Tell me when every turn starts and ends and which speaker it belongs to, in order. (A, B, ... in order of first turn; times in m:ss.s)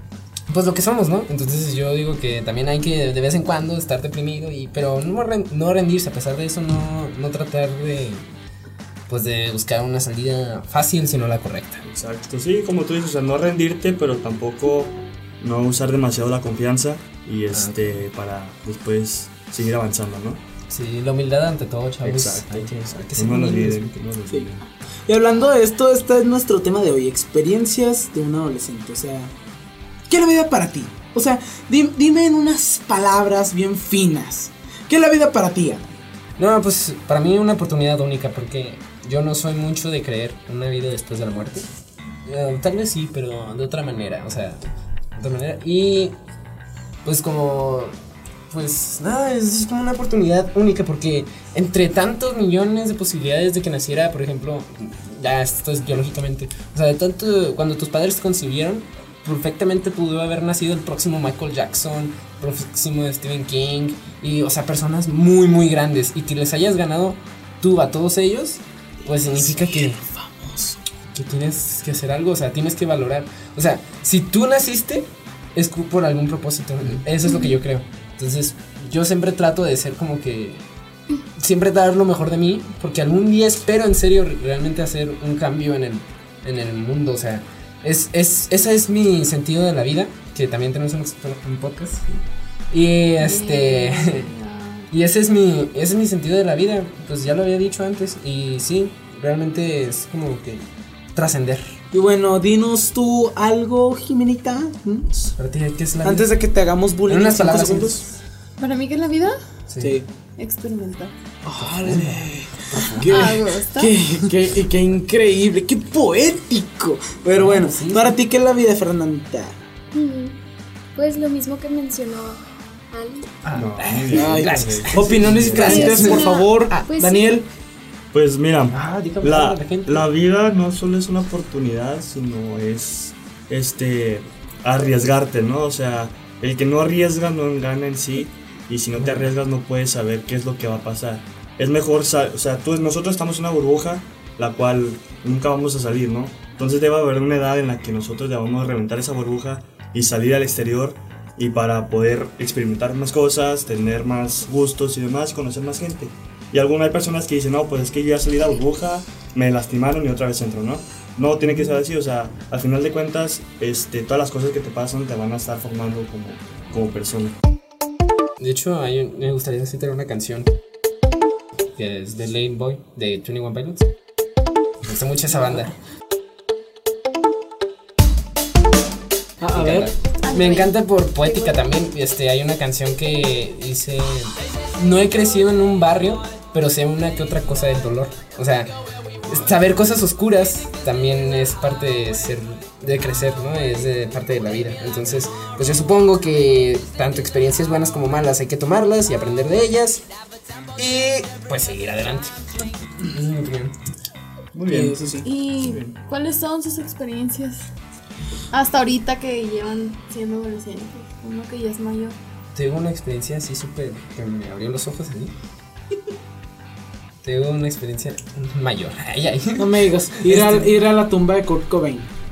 0:00.5-0:08.2 A
0:09.1-0:11.8 A
0:11.8-0:20.4 B
0:17.5-0:18.0 A
0:20.7-0:23.9 A
0:22.0-0:24.6 B
0:25.1-0:29.3 C
0:30.1-0:35.9 C
0:36.4-0:41.6 A
0:42.2-0:44.6 A
0:45.1-0:46.1 A
0:47.0-0:47.9 A
0:48.5-1:10.0 A
1:09.0-1:10.8 C
1:11.1-1:20.6 A
1:21.4-1:32.2 A
1:32.7-1:34.3 A
1:33.2-1:34.9 D
1:34.9-1:41.8 A
1:41.9-1:45.3 C
1:45.4-1:46.3 A
1:46.0-1:48.0 C
1:47.1-1:48.1 A
1:48.6-1:49.4 D
1:49.7-1:50.0 A
1:49.8-1:50.1 C
1:50.4-1:51.1 D
1:51.4-1:59.6 C
1:51.6-1:53.3 A
1:53.0-1:53.9 D
1:57.3-1:58.2 A
1:59.9-2:00.4 E
2:01.0-2:03.3 E
2:03.4-2:06.9 A
2:03.5-2:06.0 B
2:04.1-2:07.4 C
2:05.6-2:07.3 E
2:08.1-2:47.4 B
2:08.7-2:10.1 A
2:19.0-2:19.3 A
2:41.5-2:41.7 A
2:48.4-2:50.5 A
2:51.8-2:53.9 A
2:54.8-2:55.7 A
2:59.4-2:59.9 C
2:59.5-3:08.7 A
3:00.2-3:01.6 D
3:09.3-3:20.0 A
3:20.8-3:22.4 A
3:23.0-3:23.7 A
3:24.5-3:25.9 B
3:24.7-3:25.3 C
3:25.2-3:27.7 D
3:28.5-3:32.2 D
3:32.5-3:35.3 A
3:37.2-3:40.8 A
3:39.6-3:42.1 C